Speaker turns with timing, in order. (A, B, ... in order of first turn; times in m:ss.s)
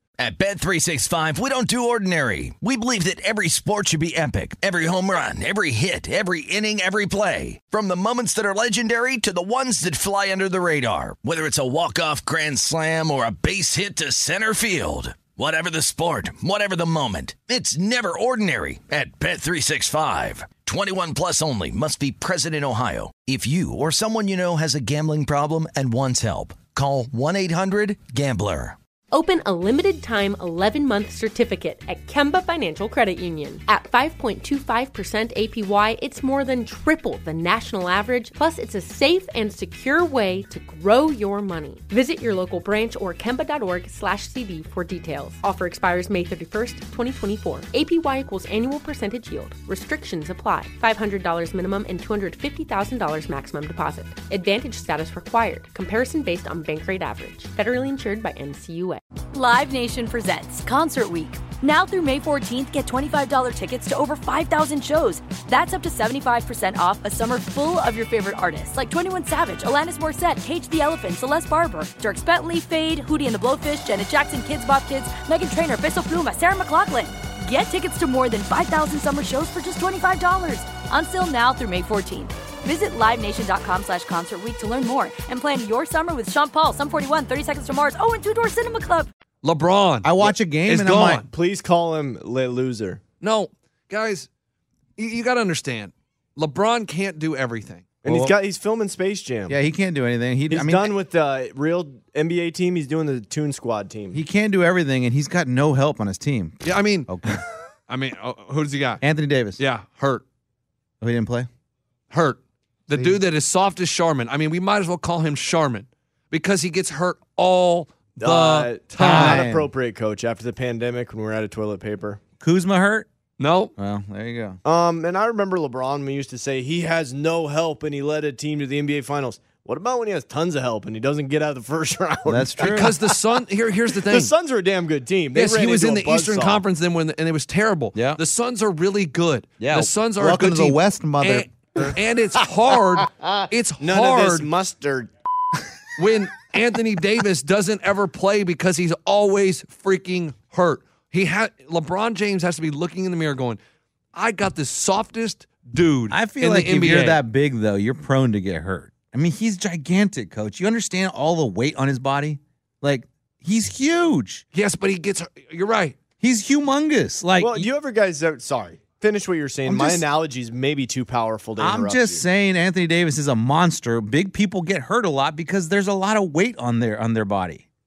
0:00.2-0:28.8 A
0:29.1-0:59.0 B
0:59.3-1:29.1 C
1:29.4-1:31.3 D
1:30.0-1:31.2 E
1:31.3-1:33.0 F
1:33.2-1:34.3 D
1:35.0-1:38.0 D
1:38.0-1:39.6 F
1:38.0-1:38.4 E
1:39.5-1:40.9 E
1:40.5-1:44.2 F
1:44.1-1:47.4 E
1:46.6-1:47.1 D
1:47.9-1:49.0 D
1:49.0-1:49.6 E
1:49.6-1:50.2 D
1:51.0-1:51.5 E
1:52.1-1:59.4 D
1:52.9-1:53.2 E
1:58.2-2:02.2 F
1:59.0-1:59.7 E
2:02.4-2:03.1 E
2:03.4-2:03.7 D
2:03.8-2:04.6 E
2:04.6-2:13.0 F
2:12.3-2:13.0 E
2:12.6-2:14.3 D
2:14.0-2:16.6 F
2:15.4-2:24.5 D
2:18.0-2:18.2 E
2:19.6-2:21.8 E
2:23.8-2:25.1 F
2:26.0-2:33.6 D
2:34.2-2:37.2 D
2:36.1-2:44.4 E
2:44.5-2:46.0 D
2:46.2-2:47.7 E
2:47.4-2:52.2 F
2:49.6-2:50.0 E
2:51.6-2:57.6 E